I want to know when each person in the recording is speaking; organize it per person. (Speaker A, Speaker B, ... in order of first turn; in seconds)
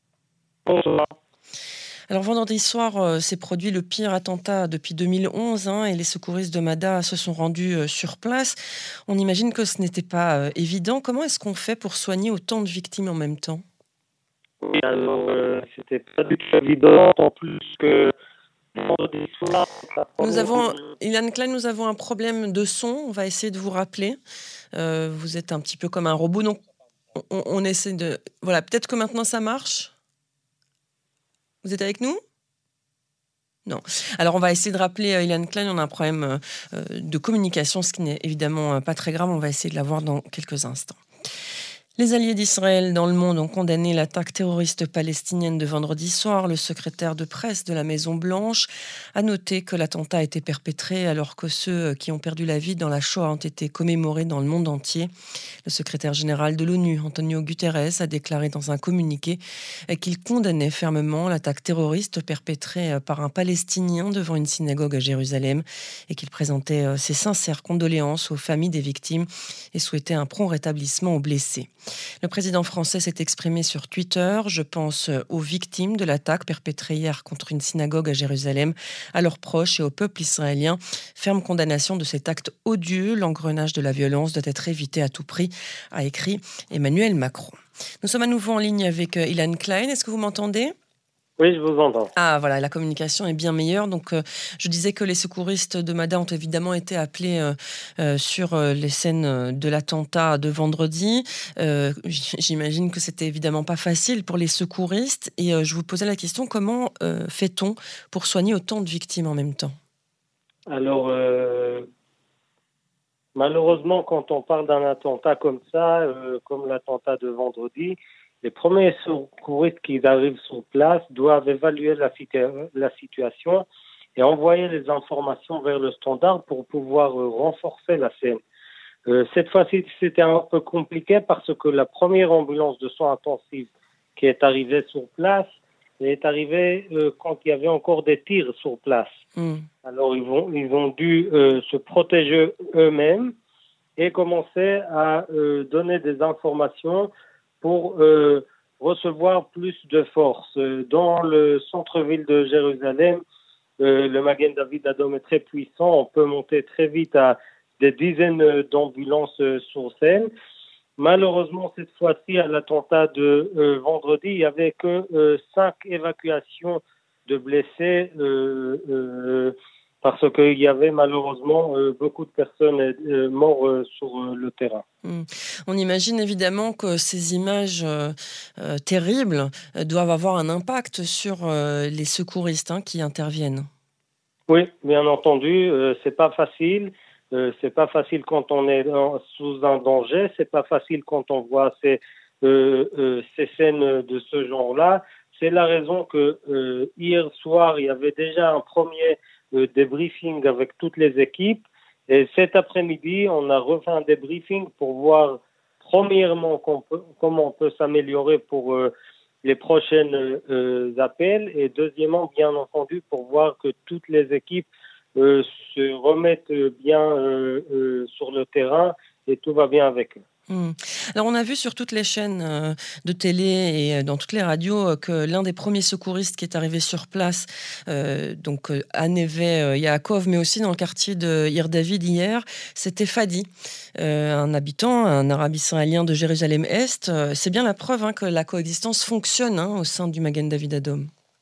Speaker A: 0.7-1.1, 14.6-18.1, 18.8-20.8, 91.4-92.1, 110.7-111.8, 113.3-128.4, 129.1-135.5, 136.0-139.2, 139.8-143.3, 144.0-147.1, 147.6-153.2, 153.8-160.3, 161.0-174.8, 184.5-208.9, 209.4-220.2
Speaker B: 2.1-8.6, 9.1-13.6, 20.2-24.2, 24.7-26.6, 27.1-29.9, 31.6-32.2, 33.7-41.0, 42.0-55.1, 55.6-71.7, 72.2-90.7, 92.2-109.8, 139.4-139.6, 175.0-183.7, 220.5-241.1